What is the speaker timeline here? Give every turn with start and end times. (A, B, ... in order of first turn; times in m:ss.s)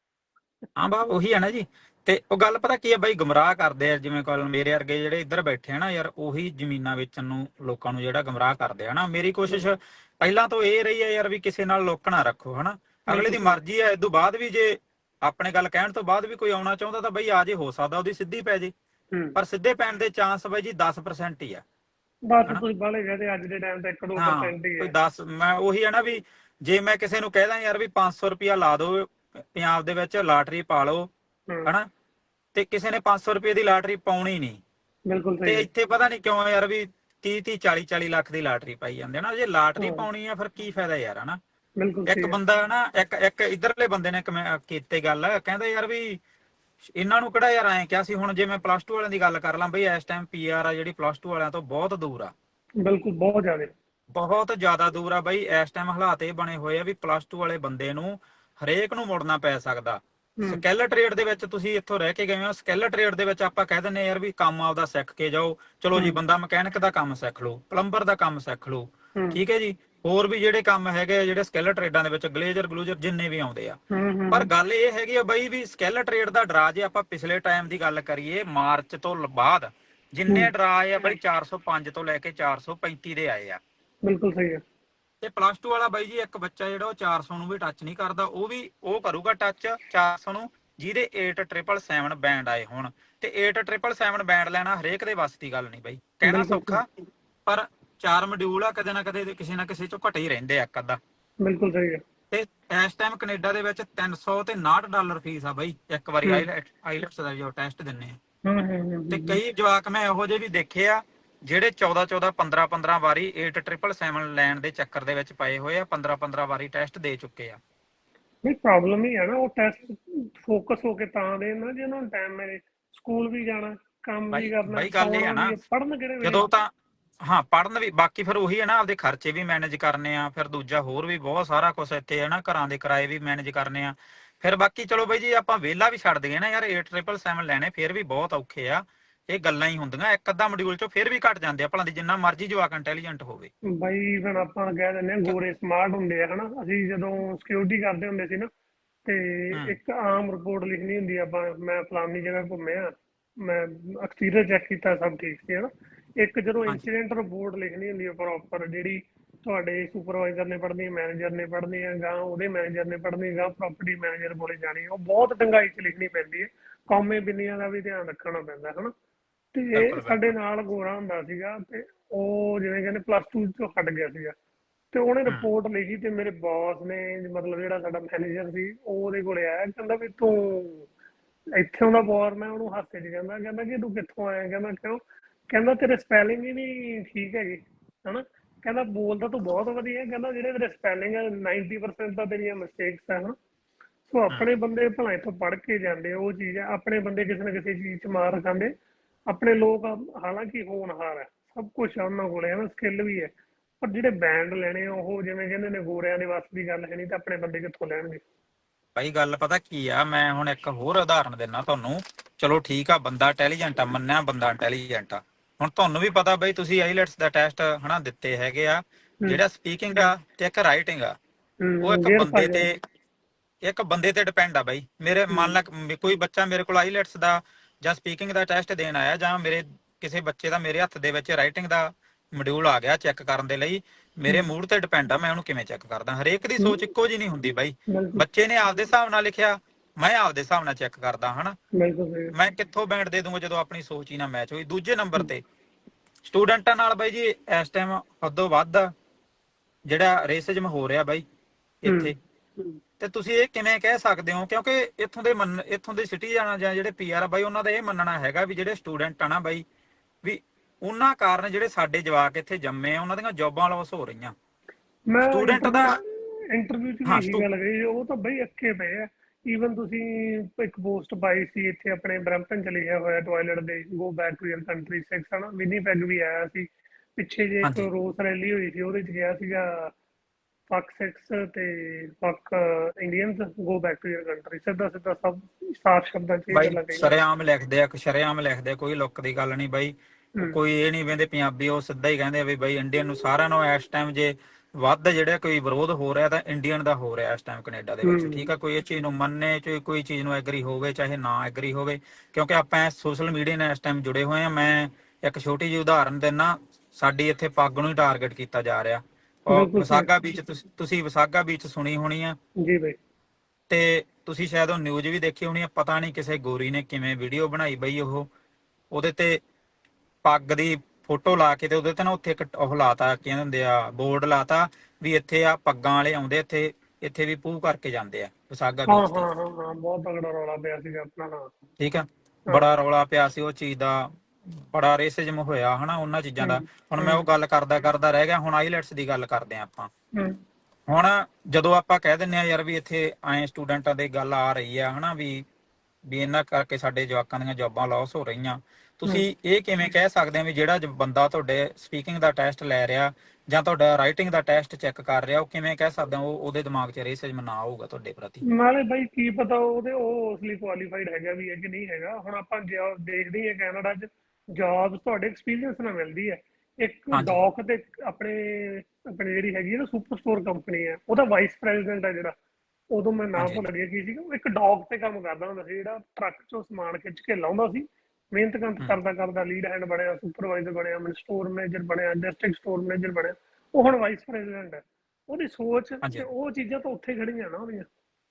0:00.8-0:18.7 A
0:13.1-0:13.6 B
0:19.4-0:21.6 A
0:22.3-0:24.9 B
0:24.2-0:31.1 A
0:32.6-0:34.6 A
0:35.1-0:35.7 B
0:35.5-0:41.4 A
0:39.8-0:40.0 B
0:41.8-0:42.4 B
0:42.1-0:46.2 A
0:47.0-0:52.3 A
0:52.8-0:53.7 B
0:54.1-1:13.8 A
1:13.9-1:14.5 B
1:14.3-1:23.6 A
1:24.0-1:24.6 B
1:25.2-1:36.9 A
1:36.3-1:36.8 B
1:37.5-1:41.0 A
1:41.4-1:42.0 B
1:42.3-1:48.2 A
1:48.4-1:49.4 B
1:49.1-1:57.6 A
1:58.4-2:06.4 B
2:04.3-2:05.6 A
2:06.2-2:06.7 A
2:07.2-2:23.5 A
2:23.7-2:28.5 B
2:29.0-2:48.9 B
2:49.5-2:54.4 B
2:49.8-2:50.3 A
2:54.9-3:00.9 B
3:01.6-3:13.4 B
3:14.1-3:18.7 B
3:19.3-3:28.2 B
3:29.0-3:41.2 A
3:41.6-3:42.6 B
3:41.8-3:42.8 A
3:43.6-4:01.6 A
3:57.9-3:58.2 B
4:01.7-4:02.3 B
4:02.3-4:05.4 A
4:06.2-4:08.9 A
4:09.9-4:11.2 A
4:11.8-4:12.2 A
4:11.9-4:12.8 B
4:13.0-4:19.6 A
4:20.2-4:24.3 A
4:25.1-4:39.9 B
4:25.2-4:26.0 A
4:27.1-4:27.4 A
4:37.6-4:37.9 A
4:40.7-4:47.1 B
4:46.5-5:12.4 A
4:58.0-4:58.5 B
5:09.5-5:10.1 B
5:12.6-5:13.0 B
5:13.7-5:18.3 A
5:18.9-5:19.4 A
5:20.2-5:29.3 A
5:28.9-5:31.5 B
5:31.8-5:34.1 A
5:32.5-5:32.8 B
5:34.7-5:39.9 A
5:36.4-5:37.2 B
5:40.2-5:40.4 B
5:40.9-5:45.4 A
5:46.1-5:58.4 A
5:58.5-6:12.4 B
6:07.1-6:07.4 A
6:12.9-6:27.9 B
6:13.4-6:13.6 A